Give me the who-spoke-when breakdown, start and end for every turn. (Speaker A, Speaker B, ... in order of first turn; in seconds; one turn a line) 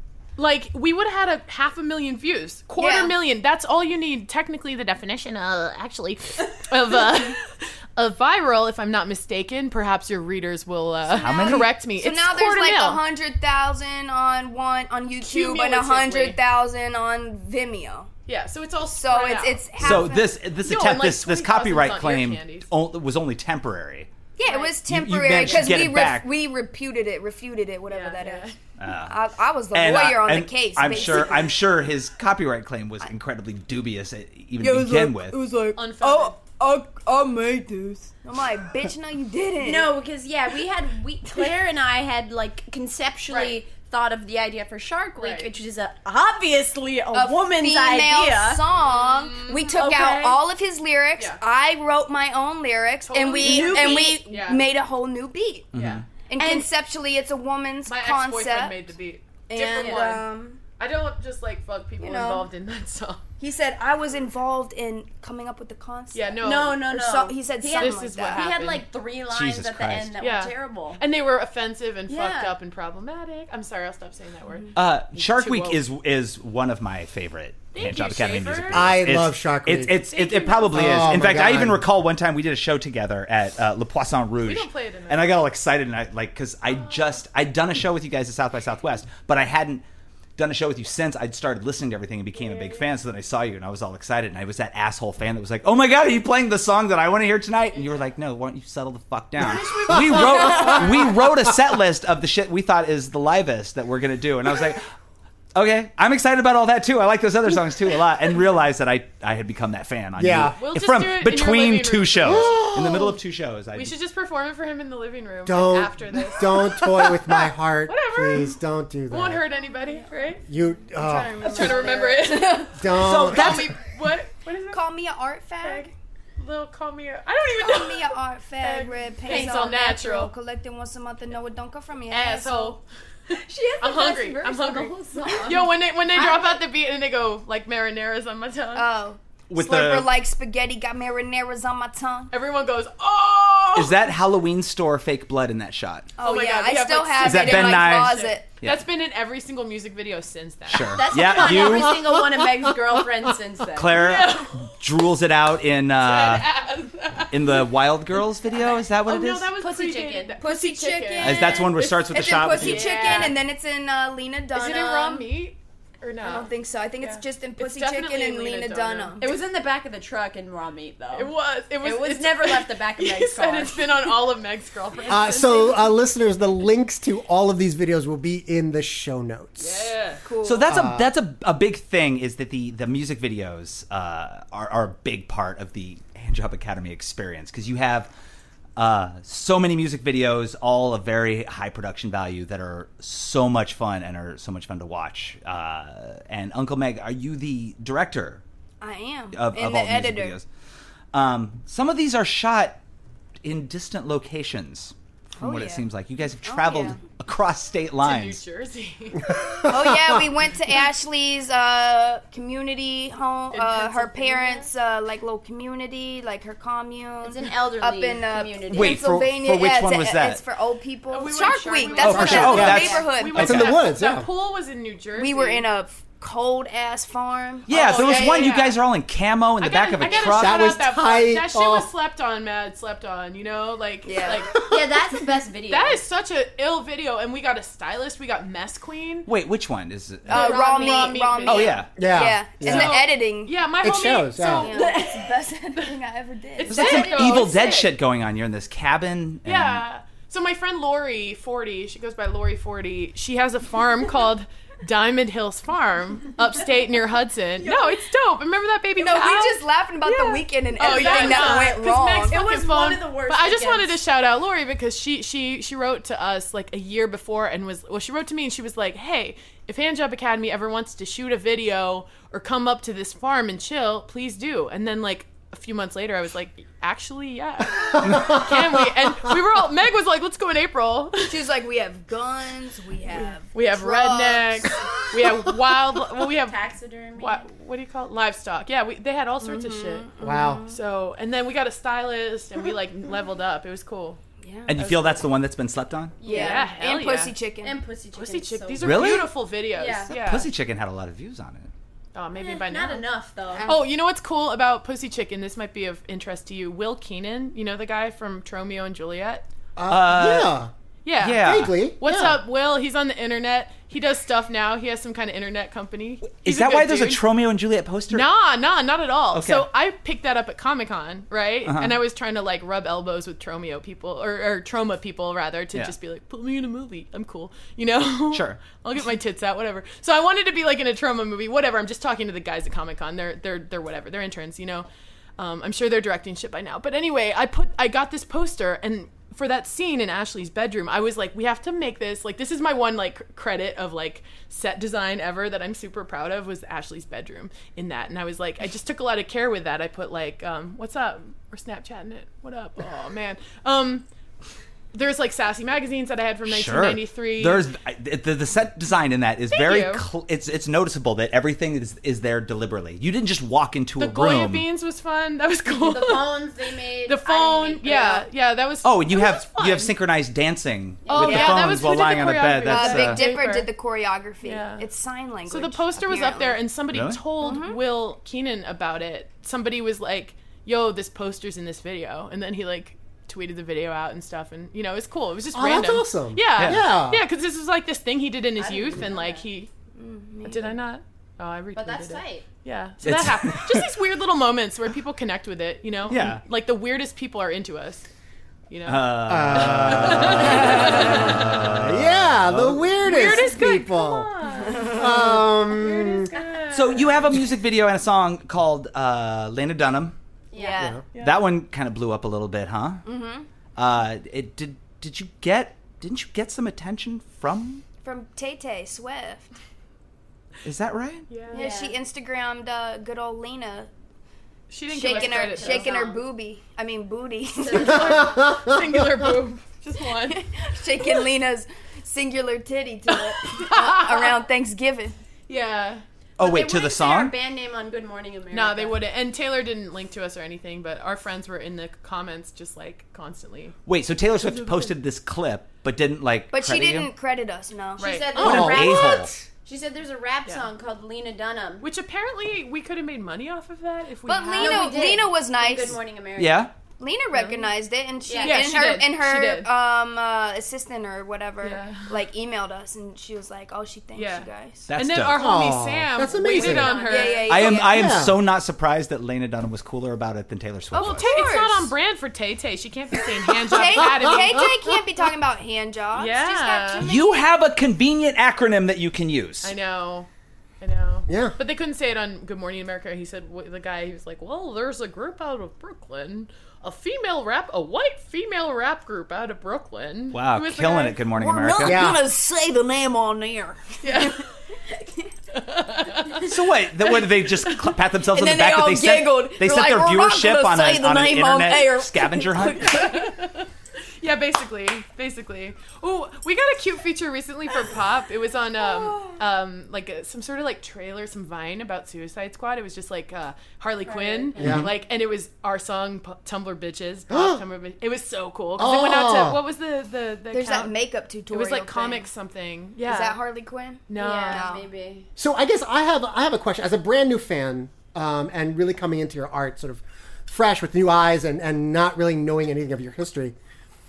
Speaker A: 0.4-13.0
Speaker B: 2.7-3.2
Speaker B: 11.1-18.1
Speaker C: 11.1-11.7
Speaker A: 15.2-16.4
Speaker A: 18.3-22.7
Speaker B: 18.9-20.3
Speaker C: 19.8-24.1
Speaker B: 24.4-31.6
Speaker A: 24.4-25.8
Speaker C: 24.8-26.3
Speaker A: 27.9-28.6
Speaker C: 28.8-29.1
Speaker C: 29.7-35.4
Speaker A: 31.0-31.3
Speaker B: 34.6-39.9
Speaker A: 35.7-36.5
Speaker D: 39.6-48.6
Speaker A: 43.3-43.6
Speaker A: 45.2-45.5
Speaker B: 47.1-55.7
Speaker A: 48.8-49.6
Speaker D: 49.6-50.4
Speaker A: 53.0-54.6
Speaker D: 53.4-54.1
Speaker C: 55.7-56.0
Speaker A: 55.7-56.0
Speaker B: 56.3-58.8
Speaker D: 56.4-56.6
Speaker A: 57.8-63.2
Speaker B: 59.5-60.6
Speaker D: 59.8-60.1
Speaker B: 62.0-62.5
Speaker B: 63.4-68.6
Speaker A: 66.1-66.9
Speaker D: 66.4-71.0
Speaker A: 67.7-68.9
Speaker C: 69.3-70.1
Speaker A: 70.2-75.8
Speaker D: 72.1-72.6
Speaker C: 74.7-89.8
Speaker A: 77.7-79.0
Speaker E: 78.7-80.0
Speaker A: 80.0-81.1
Speaker E: 80.7-81.8
Speaker A: 84.4-85.4
Speaker A: 86.7-87.2
Speaker C: 90.4-104.9
Speaker A: 92.3-92.9
Speaker A: 97.7-98.0
Speaker A: 99.4-101.1
Speaker C: 105.5-113.9
Speaker E: 110.2-110.6
Speaker A: 110.5-112.7
Speaker E: 112.2-113.2
Speaker A: 113.7-118.6
Speaker E: 115.5-119.4
Speaker A: 119.1-120.4
Speaker E: 120.5-121.7
Speaker B: 120.9-122.6
Speaker A: 121.1-124.9
Speaker E: 122.8-123.7
Speaker C: 123.0-123.7
Speaker B: 124.7-125.9
Speaker A: 125.6-130.3
Speaker B: 127.6-132.8
Speaker A: 132.1-132.8
Speaker D: 133.3-135.8
Speaker A: 133.8-138.9
Speaker B: 136.1-136.5
Speaker B: 138.7-142.3
Speaker C: 139.5-140.1
Speaker A: 142.3-144.0
Speaker C: 143.7-146.1
Speaker B: 146.2-148.5
Speaker A: 146.2-151.9
Speaker C: 147.2-148.8
Speaker C: 150.7-152.0
Speaker D: 150.9-154.0
Speaker C: 153.7-156.5
Speaker A: 153.8-154.7
Speaker A: 156.0-157.7
Speaker C: 157.3-159.5
Speaker A: 158.5-163.4
Speaker D: 159.6-160.5
Speaker B: 160.4-165.3
Speaker C: 161.2-163.3
Speaker A: 164.5-169.3
Speaker B: 166.2-169.4
Speaker D: 169.2-174.1
Speaker A: 171.1-176.0
Speaker E: 175.1-179.9
Speaker A: 179.6-180.2
Speaker B: 180.2-180.7
Speaker C: 180.4-188.1
Speaker E: 180.7-181.1
Speaker C: 188.8-198.4
Speaker B: 198.8-200.4
Speaker C: 199.3-200.4
Speaker C: 201.1-202.8
Speaker C: 203.4-208.4
Speaker B: 205.4-205.8
Speaker B: 206.4-207.0
Speaker A: 208.0-209.5
Speaker E: 209.6-210.2
Speaker B: 209.7-223.6
Speaker A: 213.5-214.7
Speaker D: 217.2-219.0
Speaker C: 218.7-220.4
Speaker A: 221.1-225.7
Speaker C: 222.0-223.7
Speaker E: 222.1-224.3
Speaker B: 225.2-228.6
Speaker C: 227.7-230.7
Speaker A: 227.7-228.8
Speaker A: 229.6-234.6
Speaker E: 230.1-231.9
Speaker B: 234.1-234.6
Speaker D: 234.6-236.0
Speaker A: 235.7-239.3
Speaker C: 239.3-240.5
Speaker A: 240.3-242.0
Speaker B: 240.3-243.6
Speaker D: 240.4-241.2
Speaker C: 241.4-241.9
Speaker E: 241.9-243.0
Speaker A: 242.6-245.1
Speaker E: 243.8-244.7
Speaker B: 244.5-247.2
Speaker D: 244.8-245.2
Speaker A: 246.6-247.9
Speaker C: 246.7-249.8
Speaker A: 249.4-281.5
Speaker D: 257.6-258.0
Speaker B: 259.0-262.5
Speaker D: 260.9-261.8
Speaker D: 262.3-264.0
Speaker B: 281.3-284.7
Speaker A: 283.1-286.6
Speaker D: 286.2-287.5
Speaker A: 287.2-290.1
Speaker B: 289.4-290.8
Speaker E: 290.2-290.6
Speaker A: 290.6-294.2
Speaker B: 294.4-294.8
Speaker C: 294.7-296.2
Speaker A: 294.8-295.2
Speaker D: 296.2-296.8
Speaker B: 296.2-297.8
Speaker A: 296.3-297.4
Speaker D: 297.6-300.1
Speaker A: 298.1-300.5
Speaker C: 298.8-299.3
Speaker C: 300.1-301.7
Speaker A: 302.1-303.1
Speaker D: 302.3-303.7
Speaker B: 303.6-303.9
Speaker A: 303.6-309.4
Speaker E: 309.8-310.7
Speaker C: 309.9-310.6
Speaker A: 311.0-317.2
Speaker C: 311.2-311.7
Speaker E: 311.4-312.4
Speaker C: 316.2-318.3
Speaker A: 318.1-354.1
Speaker C: 319.3-319.7
Speaker C: 321.6-322.0
Speaker C: 328.3-328.6
Speaker A: 354.9-357.7
Speaker C: 356.4-364.7
Speaker A: 359.5-360.0
Speaker A: 364.0-366.4
Speaker D: 365.7-368.1
Speaker A: 367.0-369.9
Speaker B: 367.9-368.2
Speaker C: 368.8-373.2
Speaker D: 371.1-371.7
Speaker A: 371.1-373.7
Speaker B: 372.6-376.6
Speaker A: 374.4-374.9
Speaker A: 375.5-389.7
Speaker C: 376.9-377.2
Speaker B: 377.4-377.8
Speaker E: 385.5-387.2
Speaker C: 386.6-386.9
Speaker D: 388.6-389.4
Speaker B: 389.9-390.8
Speaker A: 390.4-398.1
Speaker D: 391.7-392.5
Speaker C: 393.0-393.9
Speaker C: 396.1-396.4
Speaker A: 398.7-401.4
Speaker C: 398.8-403.0
Speaker E: 399.3-404.3
Speaker A: 403.0-407.4
Speaker B: 404.7-405.2
Speaker E: 404.9-406.3
Speaker C: 406.7-410.1
Speaker D: 410.5-411.0
Speaker B: 410.6-410.9
Speaker A: 411.1-411.4
Speaker C: 411.2-413.0
Speaker B: 413.0-413.5
Speaker C: 413.8-417.8
Speaker B: 418.0-419.5
Speaker C: 420.6-421.3
Speaker A: 421.3-421.6
Speaker D: 421.5-422.0
Speaker B: 421.5-423.9
Speaker A: 424.7-426.1
Speaker B: 424.9-428.2
Speaker D: 425.0-426.2
Speaker D: 427.6-428.4
Speaker A: 428.1-430.4
Speaker B: 430.3-435.1
Speaker A: 433.2-434.4
Speaker A: 435.5-436.0
Speaker C: 436.4-437.3
Speaker D: 436.4-439.0
Speaker A: 438.5-443.8
Speaker C: 443.9-447.1
Speaker A: 444.4-444.9
Speaker B: 446.5-448.3
Speaker A: 448.0-448.8
Speaker D: 448.0-451.9
Speaker C: 448.4-449.3
Speaker E: 448.4-449.3
Speaker A: 451.8-455.1
Speaker B: 454.2-456.0
Speaker D: 454.5-456.7
Speaker C: 456.4-456.7
Speaker B: 457.0-464.9
Speaker A: 457.3-457.7
Speaker D: 458.3-458.7
Speaker A: 458.4-459.7
Speaker A: 461.6-462.2
Speaker A: 464.1-467.6
Speaker C: 464.9-465.4
Speaker E: 465.3-467.0
Speaker D: 466.5-467.5
Speaker B: 466.9-468.2
Speaker C: 467.5-471.3
Speaker E: 467.7-468.4
Speaker B: 470.9-471.9
Speaker A: 471.0-474.7
Speaker B: 473.6-477.4
Speaker A: 476.1-477.1
Speaker C: 477.0-479.7
Speaker A: 479.6-480.3
Speaker A: 480.8-491.3
Speaker E: 481.3-481.6
Speaker C: 490.3-492.1
Speaker B: 491.3-494.3
Speaker E: 491.8-492.2
Speaker A: 494.0-494.4
Speaker A: 495.6-496.4
Speaker C: 496.4-503.0
Speaker B: 498.3-503.3
Speaker A: 502.9-503.7
Speaker A: 504.2-523.4
Speaker B: 508.9-509.4
Speaker D: 514.0-515.0
Speaker E: 514.6-514.9
Speaker E: 517.3-517.6
Speaker E: 518.8-519.6
Speaker B: 520.5-522.3
Speaker B: 523.0-524.9
Speaker A: 524.1-524.7
Speaker D: 524.1-525.3
Speaker E: 525.4-533.5